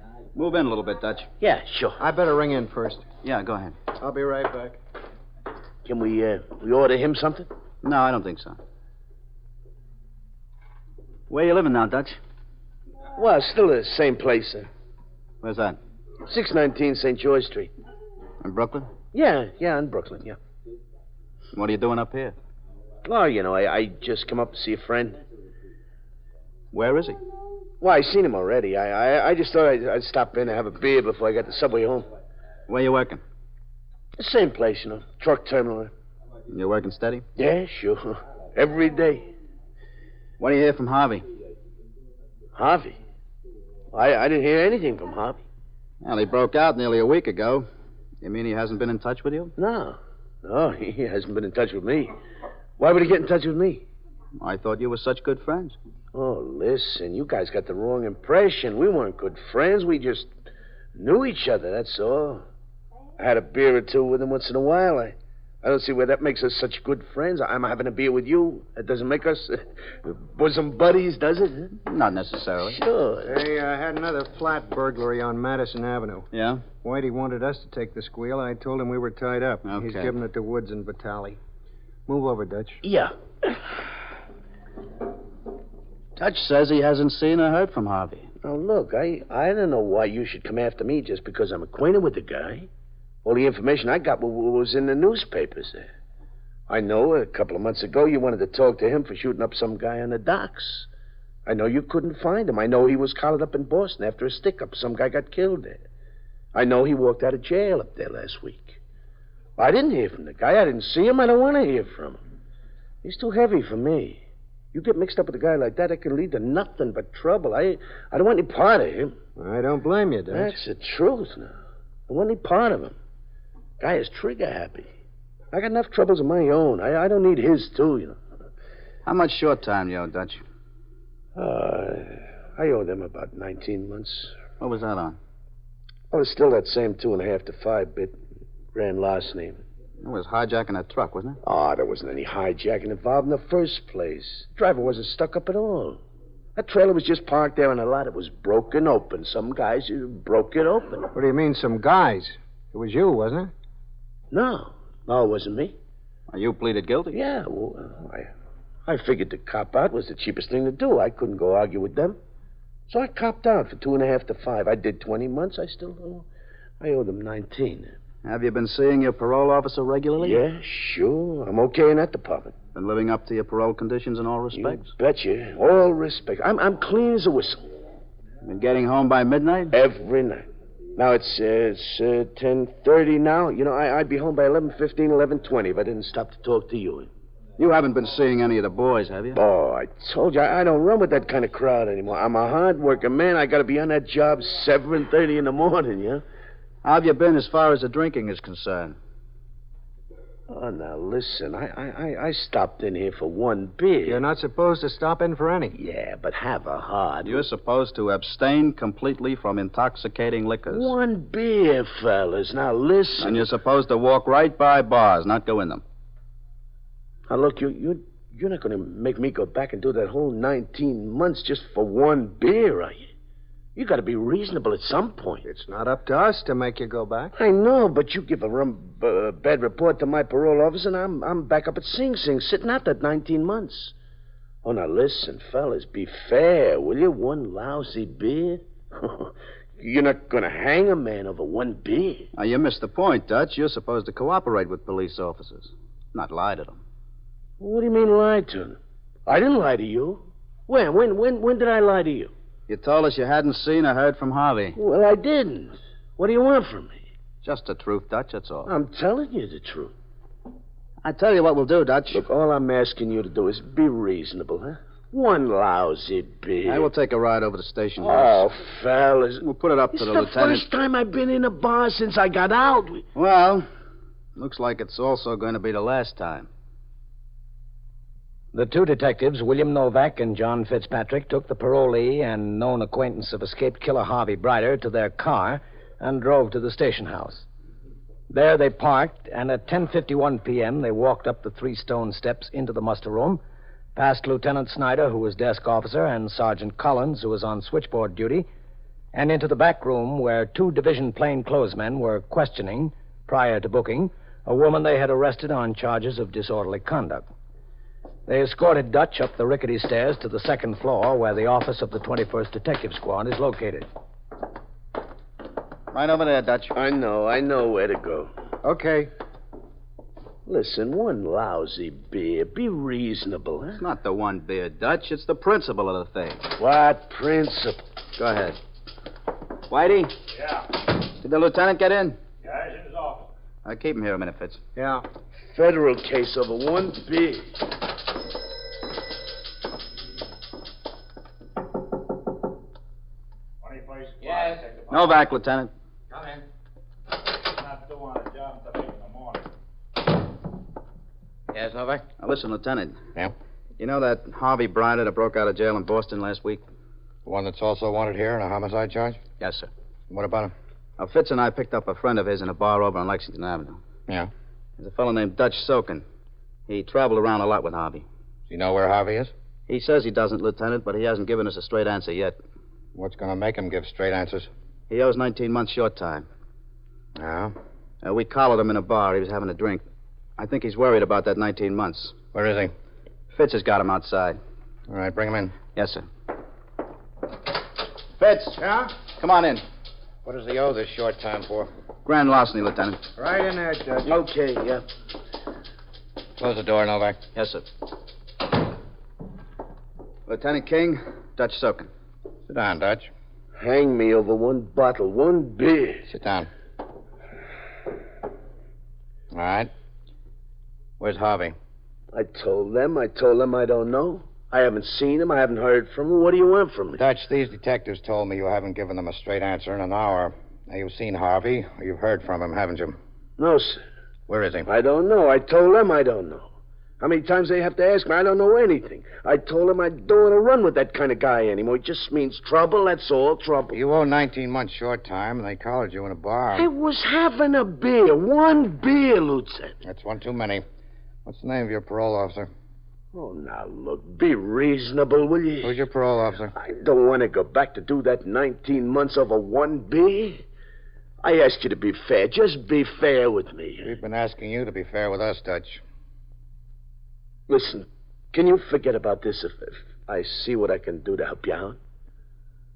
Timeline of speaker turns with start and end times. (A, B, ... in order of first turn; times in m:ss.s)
0:00.4-0:01.3 A
0:01.4-0:02.0 B
0:02.0-0:03.0 C
0:03.2-0:03.8 A
0:04.0-0:04.8 C
0:05.8-0:07.5 B
0:07.8-0:08.6 A
0:11.3-0:12.2 A
0:13.2-0:14.7 B
0:15.4-0:15.8 A
0:16.2-0:17.7 B
0:18.4-0:18.9 A
0:19.1-0:20.4 B
0:21.5-0:22.4 A
0:23.0-0:25.2 B
0:26.7-0:27.2 A
0:27.8-0:32.1 B
0:32.7-0:33.2 A
0:34.2-0:35.9 B
0:36.5-0:37.2 A
0:37.4-0:39.3 B
0:40.4-0:41.3 A
0:42.6-0:43.0 B
0:43.9-0:45.4 B
0:46.0-0:47.7 A
0:48.2-0:49.5 A
0:49.6-0:52.1 B
0:52.8-0:53.8 B
0:54.4-0:55.8 A
0:56.1-1:00.3 B
1:00.9-1:02.4 B
1:03.2-1:11.8 B
1:11.8-1:12.8 A
1:12.6-1:13.4 B
1:13.2-1:21.4 C
1:16.3-1:16.7 A
1:19.6-1:20.1 A
1:22.1-1:22.8 C
1:22.8-1:23.6 B
1:26.2-1:28.3 A
1:28.4-1:32.7 B
1:33.2-1:35.9 B
1:36.7-1:40.9 B
1:41.4-1:45.8 B
1:46.5-1:48.8 B
1:49.6-1:52.2 B
1:53.0-1:59.2 B
1:59.4-2:00.6 C
2:00.3-2:01.6 B
2:02.1-2:02.9 B
2:03.8-2:04.9 B
2:05.5-2:08.2 B
2:09.0-2:10.4 A
2:11.4-2:14.4 B
2:14.6-2:15.2 A
2:16.1-2:18.1 B
2:18.7-2:19.6 B
2:20.0-2:21.4 A
2:21.4-2:26.0 B
2:26.6-2:31.1 B
2:31.1-2:33.5 C
2:34.3-2:35.8 B
2:36.3-2:37.2 A
2:37.1-2:38.3 B
2:38.9-2:42.2 B
2:42.9-2:46.2 B
2:46.8-2:47.9 B
2:48.2-2:50.4 A
2:50.2-2:52.6 B
2:52.7-2:54.8 A
2:54.5-2:57.6 B
2:58.4-2:59.7 A
2:59.7-3:07.1 B
3:07.6-3:09.4 A
3:09.4-3:16.2 B
3:16.8-3:19.0 A
3:20.5-3:24.2 B
3:24.1-3:25.8 C
3:25.7-3:27.4 B
3:27.2-3:30.9 A
3:30.7-3:33.4 B
3:33.2-3:35.8 A
3:37.3-3:43.1 B
3:43.8-3:45.4 B
3:45.4-3:47.3 C
3:47.4-3:53.9 B
3:54.6-4:02.3 B
4:02.4-4:06.8 A
4:07.6-4:12.3 B
4:12.7-4:14.8 A
4:14.8-4:17.0 B
4:17.4-4:18.7 A
4:18.6-4:19.9 B
4:21.0-4:22.2 A
4:22.1-4:26.9 B
4:26.6-4:28.5 A
4:28.0-4:33.1 B
4:29.4-4:30.6 A
4:33.1-4:33.7 A
4:34.4-4:36.5 A
4:38.5-4:47.5 D
4:48.3-4:53.4 D
4:54.0-4:58.5 D
4:59.1-5:07.2 D
5:08.3-5:13.9 D
5:15.9-5:16.7 A
5:16.7-5:18.3 B
5:18.6-5:19.1 C
5:20.5-5:23.8 B
5:23.8-5:26.5 A
5:26.6-5:27.8 B
5:28.2-5:28.6 A
5:29.7-5:30.2 A
5:30.3-5:30.6 E
5:31.2-5:32.2 A
5:32.4-5:33.3 E
5:33.6-5:34.6 A
5:34.8-5:35.0 C
5:35.5-5:37.6 B
5:43.6-5:45.2 E
5:44.9-5:45.7 A
5:46.1-5:46.4 E
5:47.4-5:49.5 E
5:51.5-5:52.0 F
5:52.2-5:53.0 A
5:53.8-5:56.6 A
5:57.2-5:59.2 F
5:59.4-5:59.7 A
6:00.1-6:00.5 F
6:01.0-6:03.8 A
6:04.8-6:06.0 A
6:06.7-6:08.1 A
6:08.5-6:09.3 F
6:09.7-6:12.4 A
6:13.0-6:14.5 F
6:14.9-6:16.3 A
6:17.2-6:17.5 F
6:18.0-6:19.8 A
6:20.4-6:22.2 A
6:22.3-6:22.7 F
6:23.3-6:24.4 A
6:24.9-6:25.6 F
6:25.7-6:26.1 A
6:28.2-6:29.6 A
6:28.6-6:28.9 C
6:30.2-6:31.7 F
6:32.0-6:33.0 A
6:33.2-6:34.2 C
6:34.0-6:34.8 B
6:36.4-6:37.2 F
6:37.4-6:37.6 A
6:40.3-6:41.9 A
6:42.5-6:43.1 F
6:43.6-6:46.1 B
6:46.1-6:46.5 F
6:49.3-6:49.7 F
6:51.0-6:51.6 F
6:52.1-6:57.0 B
6:57.0-7:03.0 F
7:03.4-7:03.8 B
7:04.3-7:04.7 F
7:04.6-7:06.5 B
7:07.0-7:13.8 B
7:13.7-7:16.7 F
7:16.6-7:19.8 B
7:19.8-7:20.6 F
7:21.2-7:22.5 F
7:23.1-7:25.8 B
7:25.6-7:26.5 F
7:26.5-7:30.4 B
7:31.2-7:33.9 B
7:33.8-7:35.8 F
7:37.5-7:41.8 B